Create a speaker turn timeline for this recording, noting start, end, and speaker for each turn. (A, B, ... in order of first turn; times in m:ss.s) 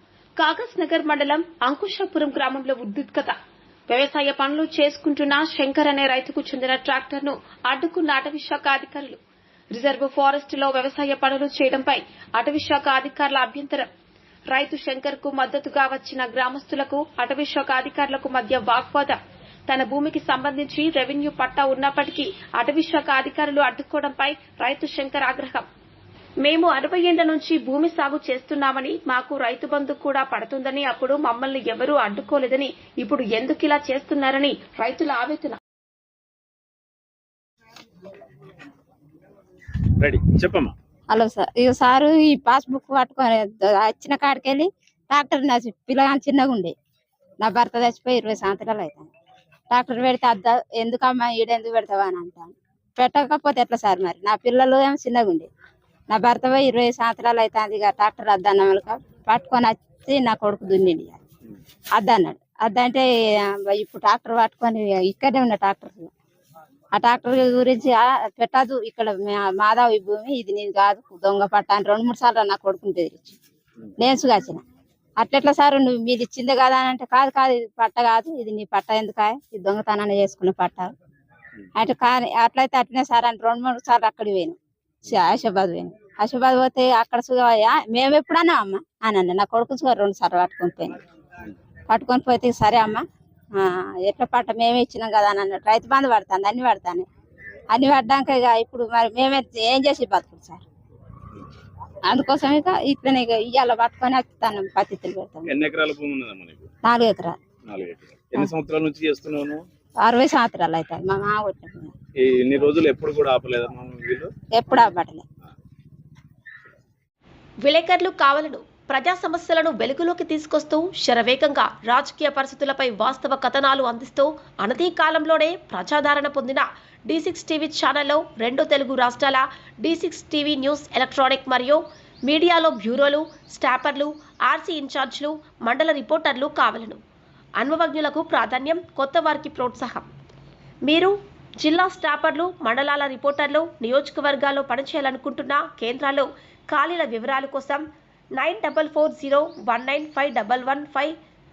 0:00.4-0:03.4 A
0:03.9-0:09.2 A
0:09.7-0:13.9 A
0:14.5-0:19.2 A
0:19.7-0:25.6 A
0:26.4-0:35.6 A
0:40.0-0:40.8 B
0:41.1-0:46.8 C
0:47.4-0:49.1 C
0:49.7-0:55.5 C
0:56.1-1:01.2 C
1:02.0-1:06.1 C
1:07.0-1:13.4 C
1:14.0-1:14.6 C
1:15.2-1:20.9 C
1:21.8-1:31.0 C
1:31.9-1:37.1 C
1:37.7-1:40.6 C
1:42.1-1:45.5 C
1:45.5-1:46.7 B
1:46.9-1:47.4 C
1:47.7-1:49.6 B
1:50.0-1:52.0 C
1:52.2-1:54.3 B
1:54.6-1:55.3 C
1:57.6-2:17.0 A
2:17.6-2:20.1 A
2:20.8-2:27.8 A
2:28.4-2:31.2 A